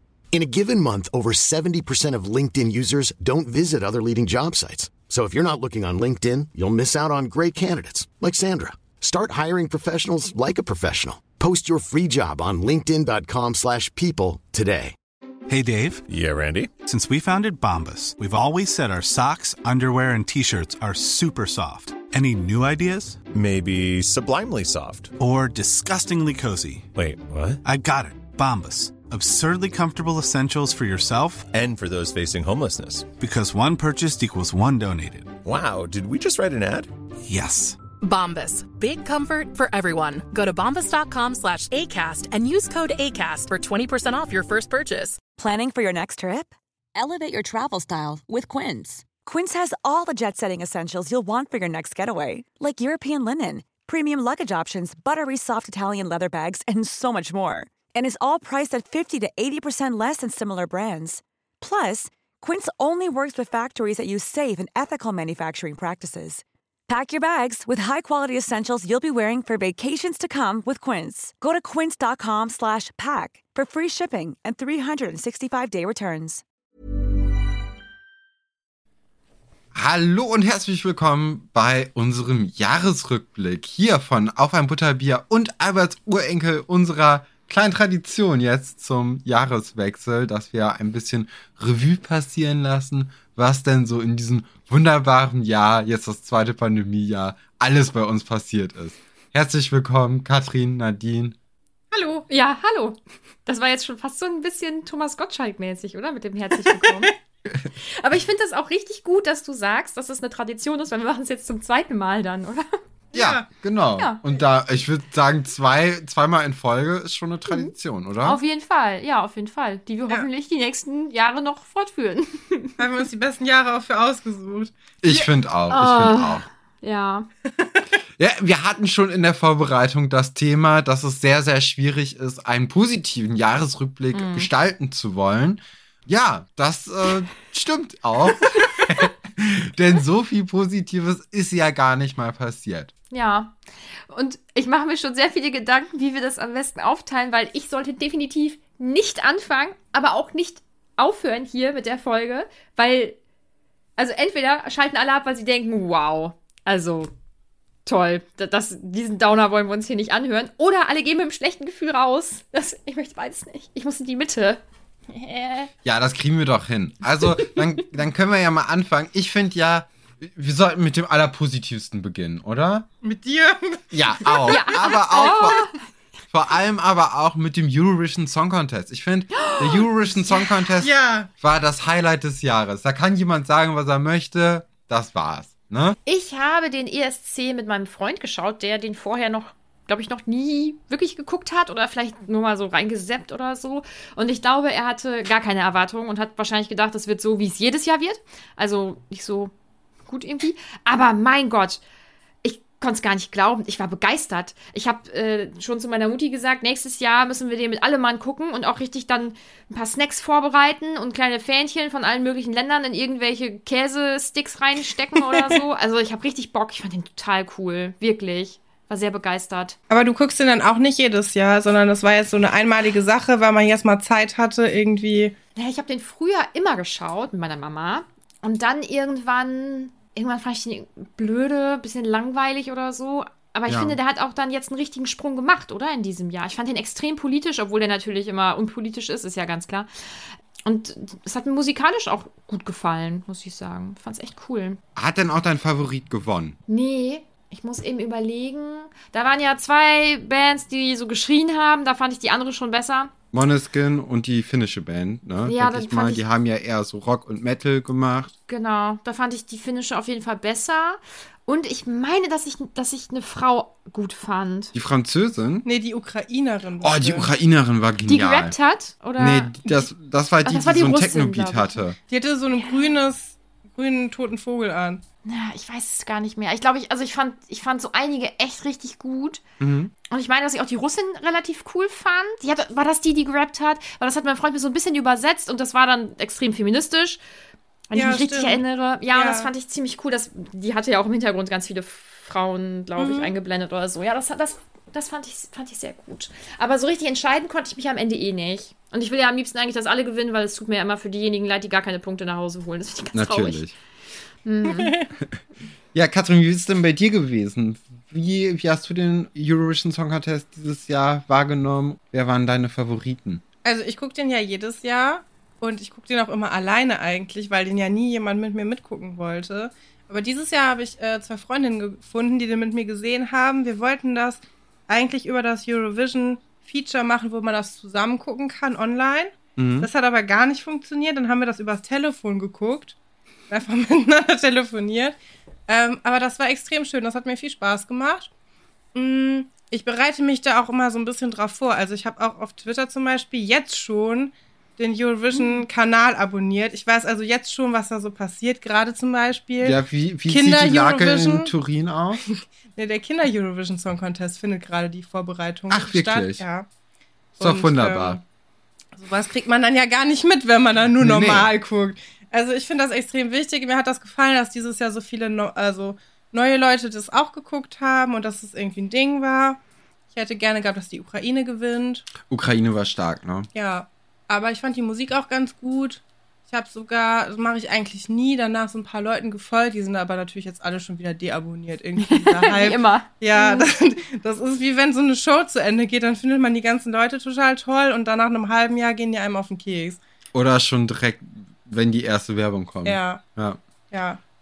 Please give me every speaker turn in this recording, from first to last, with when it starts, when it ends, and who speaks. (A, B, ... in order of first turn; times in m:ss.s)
0:00.3-0:14.9 A
0:15.5-0:16.1 B
0:16.1-0:16.7 C
0:16.7-0:23.2 B
0:23.3-0:25.1 C
0:25.2-0:26.9 B
0:26.9-0:27.6 C
0:27.6-0:31.5 B
0:31.5-0:33.1 C
0:33.2-0:35.4 B
0:35.4-0:36.9 C
0:37.2-0:37.8 B
0:38.0-0:45.2 D
0:45.4-1:16.4 E
1:19.7-1:41.4 F
1:41.9-1:42.2 G
1:42.3-1:47.1 H
1:48.0-1:52.7 H
1:53.1-1:53.4 G
1:53.1-1:58.4 F
1:54.0-1:54.2 H
1:57.5-2:02.8 H
2:02.8-2:05.3 G
2:05.0-2:06.4 F
2:05.7-2:07.3 H
2:08.2-2:22.9 F
2:14.1-2:14.5 H
2:23.1-2:23.6 H
2:24.1-2:33.2 H
2:34.0-2:37.1 H
2:37.8-2:44.6 H
2:45.1-2:45.7 H
2:45.8-2:52.8 F
2:53.0-2:54.4 G
2:53.9-2:55.6 F
2:54.5-2:55.7 H
2:56.3-3:06.0 F
2:59.3-2:59.9 H
3:00.8-3:01.3 G
3:06.0-3:19.5 H
3:20.1-3:21.8 H
3:22.4-3:39.8 H
3:39.9-3:45.3 G
3:45.5-3:59.9 H
3:53.7-3:54.0 F
4:00.6-4:04.8 H
4:05.0-4:06.6 F
4:06.7-4:13.1 H
4:13.3-4:18.3 F
4:15.4-4:16.2 H
4:18.5-4:24.7 H
4:24.7-4:25.6 F
4:25.6-4:27.3 G
4:26.8-4:28.6 F
4:28.1-4:29.9 H
4:29.2-4:32.0 F
4:30.4-4:31.9 H
4:32.1-4:35.0 G
4:35.2-4:39.4 H
4:39.6-4:39.9 F
4:40.1-4:47.2 H
4:47.9-5:03.6 H
4:47.9-4:49.5 G
4:53.0-4:53.4 G
5:03.1-5:03.7 F
5:04.4-5:04.9 H
5:04.7-5:05.0 G
5:05.9-5:13.4 F
5:13.6-5:32.9 G
5:29.6-5:29.9 F
5:33.5-5:35.2 G
5:35.7-5:38.3 G
5:38.9-5:51.5 G
5:49.6-5:52.2 F
5:52.3-5:56.6 G
5:55.7-5:56.4 F
5:57.4-5:58.2 F
5:57.4-5:58.2 G
5:58.9-6:09.6 G
6:01.0-6:01.5 F
6:10.1-6:12.1 G
6:12.2-6:13.5 F
6:13.5-6:30.0 G
6:22.0-6:23.7 H
6:30.3-6:33.6 F
6:32.8-6:33.2 G
6:33.9-6:34.2 G